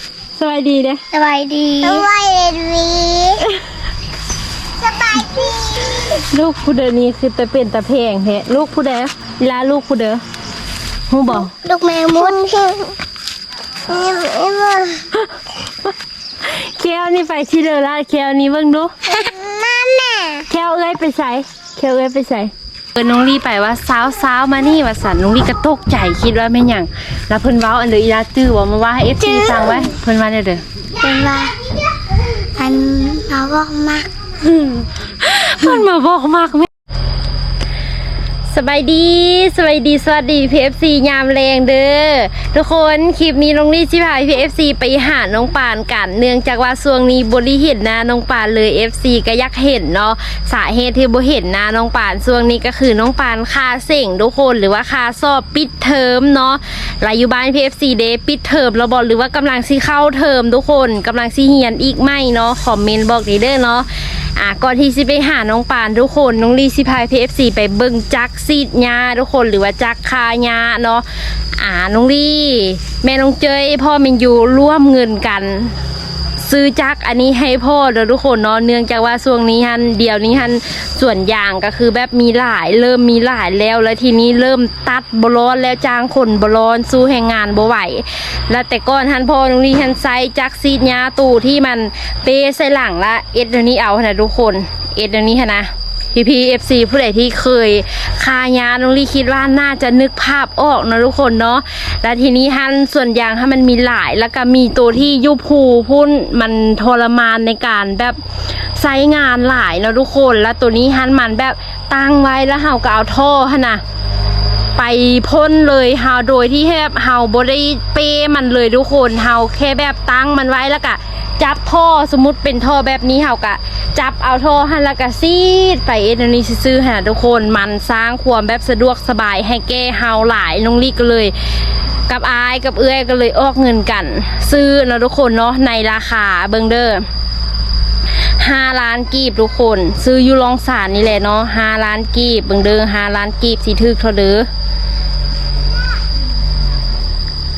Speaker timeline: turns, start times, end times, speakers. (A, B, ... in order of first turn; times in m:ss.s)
0:00.4-0:01.0 A
0:01.1-0:03.4 B
0:04.8-0:06.0 B
0:06.1-0:10.2 A
0:11.1-0:11.5 A
0:11.3-0:12.9 B
0:13.9-0:15.1 B
0:16.4-0:18.9 A
0:19.1-0:20.5 B
0:20.5-0:30.6 A
0:29.3-0:29.9 B
0:31.0-0:31.6 B
0:32.6-0:34.9 B
0:35.2-0:36.7 A
0:38.5-1:11.0 A
1:11.6-1:15.7 A
1:16.4-1:48.2 A
1:48.8-1:53.8 A
1:54.8-2:11.3 A
2:12.1-2:17.0 A
2:18.4-2:24.5 A